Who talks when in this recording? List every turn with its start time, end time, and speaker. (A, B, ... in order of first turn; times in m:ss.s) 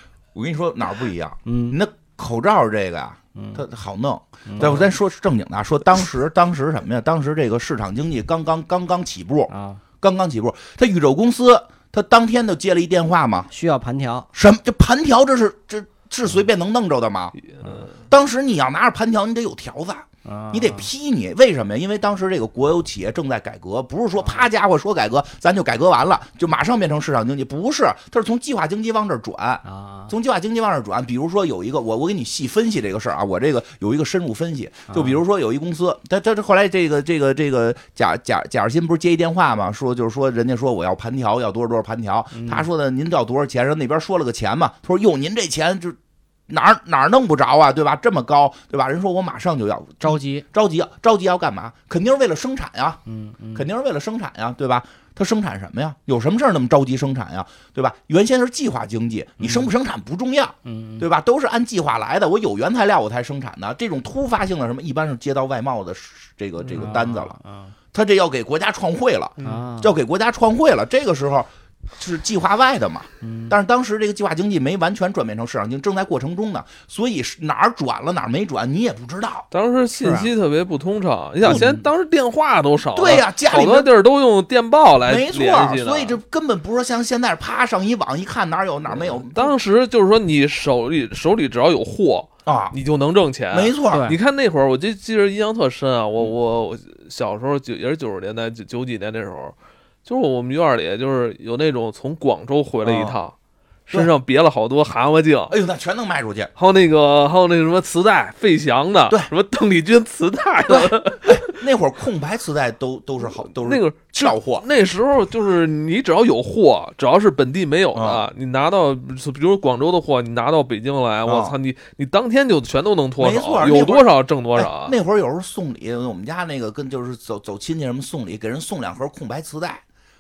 0:00.4-0:13.5 A
0:01.4-0:01.8 B
0:03.4-0:03.6 B
0:04.5-0:04.8 B
0:09.5-0:09.8 B
0:13.5-0:14.3 B
0:14.3-0:17.4 A
0:17.4-0:17.9 C
0:18.0-0:46.0 A
0:20.2-0:20.9 B
0:29.6-0:30.1 B
0:34.9-0:35.2 B
0:42.3-0:42.7 B
0:46.5-0:53.0 A
0:50.0-0:50.4 B
0:53.1-0:53.7 B
0:53.6-1:07.4 A
0:59.4-0:59.7 B
1:00.6-1:01.1 B
1:06.6-1:06.9 C
1:06.8-1:07.7 B
1:07.9-1:19.5 A
1:09.4-1:10.0 B
1:13.2-1:13.6 B
1:19.5-1:26.2 C
1:20.0-1:20.3 B
1:21.4-1:21.7 A
1:21.5-1:21.9 B
1:22.9-1:23.9 A
1:25.0-1:29.6 A
1:28.9-1:43.3 C
1:32.5-1:32.8 A
1:33.5-1:34.1 A
1:33.9-1:34.2 B
1:42.8-1:43.2 A
1:43.9-1:45.6 C
1:45.5-1:46.5 A
1:46.6-1:51.6 C
1:50.7-1:54.7 A
1:53.4-2:05.0 C
1:57.9-1:58.2 A
2:01.2-2:01.6 A
2:03.2-2:09.8 A